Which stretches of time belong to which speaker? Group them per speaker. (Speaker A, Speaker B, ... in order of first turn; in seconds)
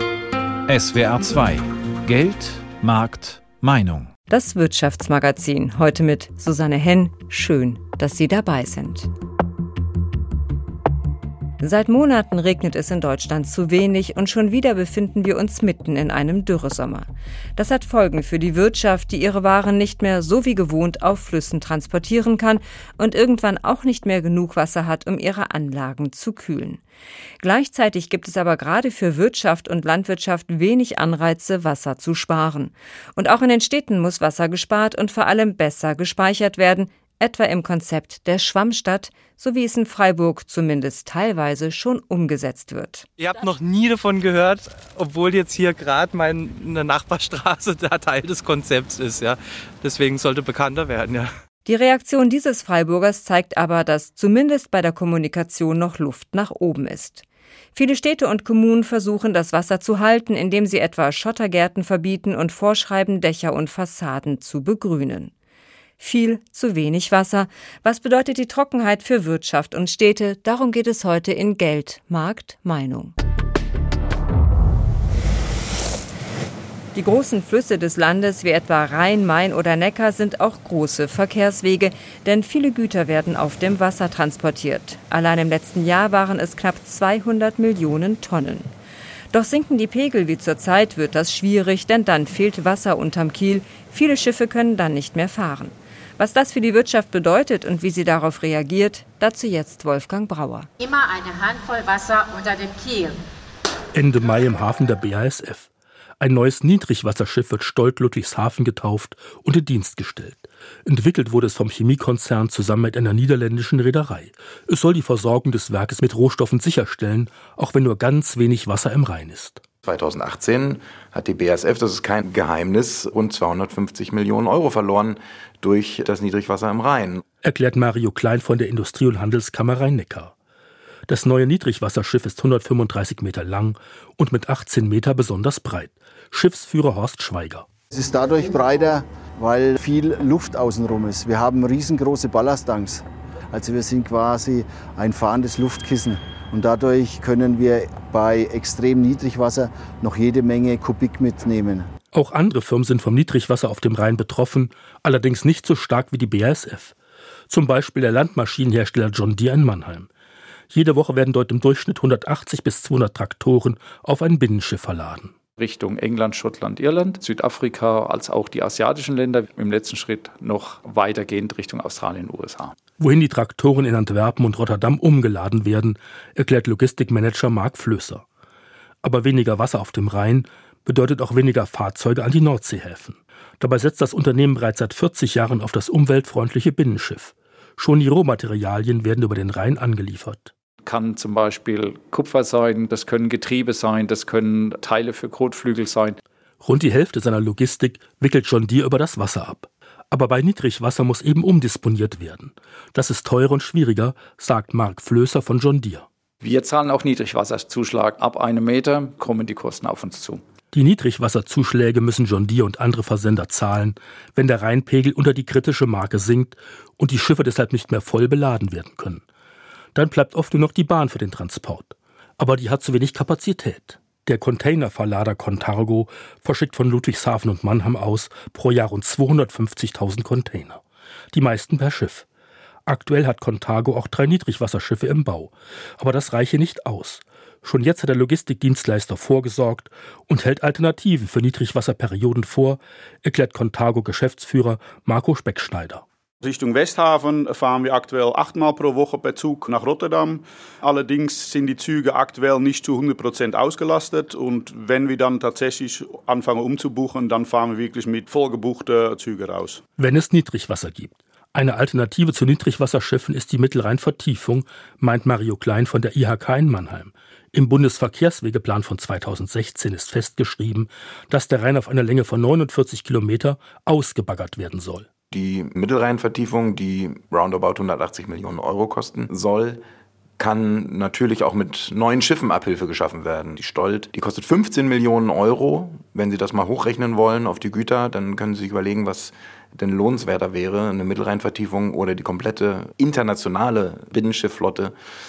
Speaker A: 0.7-4.1
Speaker B: 4.3-9.1, 11.6-26.8, 27.4-43.1, 51.6-57.2, 57.8-65.3, 66.0-73.1, 76.9-88.7, 89.3-100.7
Speaker C: 43.2-51.3
Speaker D: 100.8-103.1
Speaker E: 103.9-105.7, 106.2-119.6, 127.4-130.3, 131.1-137.7, 152.1-156.9, 157.5-160.1, 160.7-165.3, 173.0-178.2, 179.0-190.5, 196.6-206.1, 210.7-219.2, 219.9-230.8, 231.3-232.3, 232.9-246.0, 260.0-275.1
Speaker F: 119.8-127.2, 275.3-279.8, 280.4-294.9
Speaker G: 137.9-151.9
Speaker H: 165.6-172.8, 190.8-196.2, 206.4-210.4
Speaker I: 246.4-259.8